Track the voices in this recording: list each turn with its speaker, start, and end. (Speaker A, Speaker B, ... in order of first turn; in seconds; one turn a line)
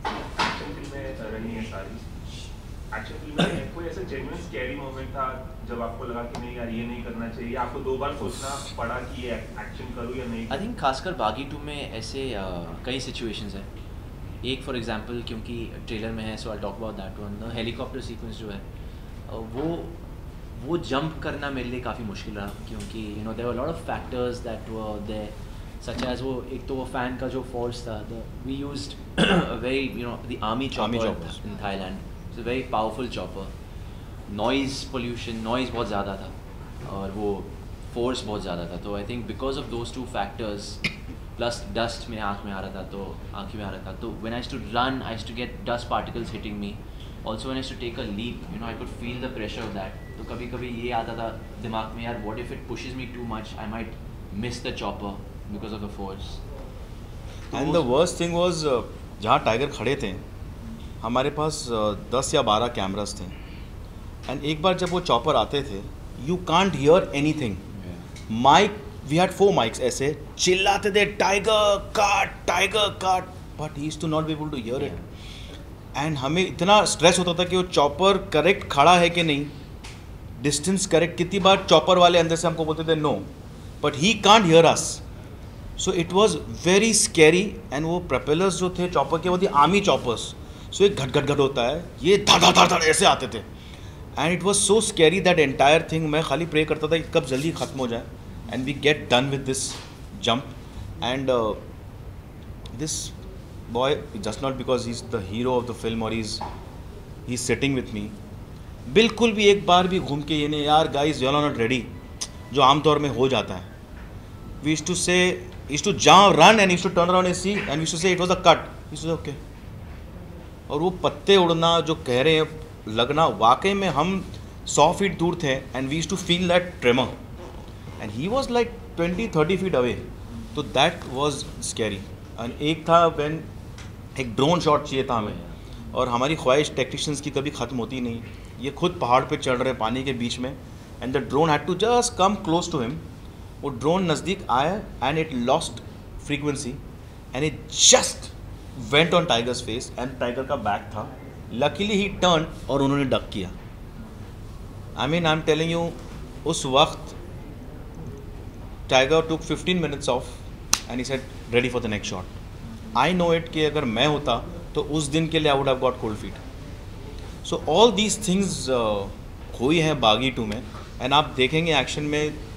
Speaker A: 0.3-2.1
Speaker A: 2.9-10.6
Speaker B: 10.5-13.7
Speaker B: 14.4-18.6
Speaker B: 19.3-19.9
Speaker B: 20.5-33.5
Speaker C: 30.7-31.4
Speaker B: 34.3-56.4
Speaker B: 57.5-58.0
Speaker C: 57.5-60.2
Speaker C: 61.0-63.4
Speaker C: 64.3-67.6
Speaker B: 67.7-68.0
Speaker C: 68.3-75.0
Speaker B: 74.7-75.1
Speaker C: 75.9-79.5
Speaker C: 80.4-83.3
Speaker C: 83.8-85.0
Speaker C: 85.8-93.5
Speaker C: 94.2-101.6
Speaker C: 102.7-103.2
Speaker C: 103.7-106.4
Speaker C: 107.3-108.1
Speaker C: 108.9-111.9
Speaker C: 112.5-113.7
Speaker C: 114.6-119.4
Speaker C: 120.7-127.1
Speaker C: 128.0-133.4
Speaker C: 134.1-135.4
Speaker B: 135.1-135.6
Speaker C: 135.9-143.0
Speaker C: 143.6-146.8
Speaker C: 147.3-153.5
Speaker C: 154.9-157.2
Speaker C: 158.9-162.3
Speaker C: 162.9-166.4
Speaker C: 167.4-172.3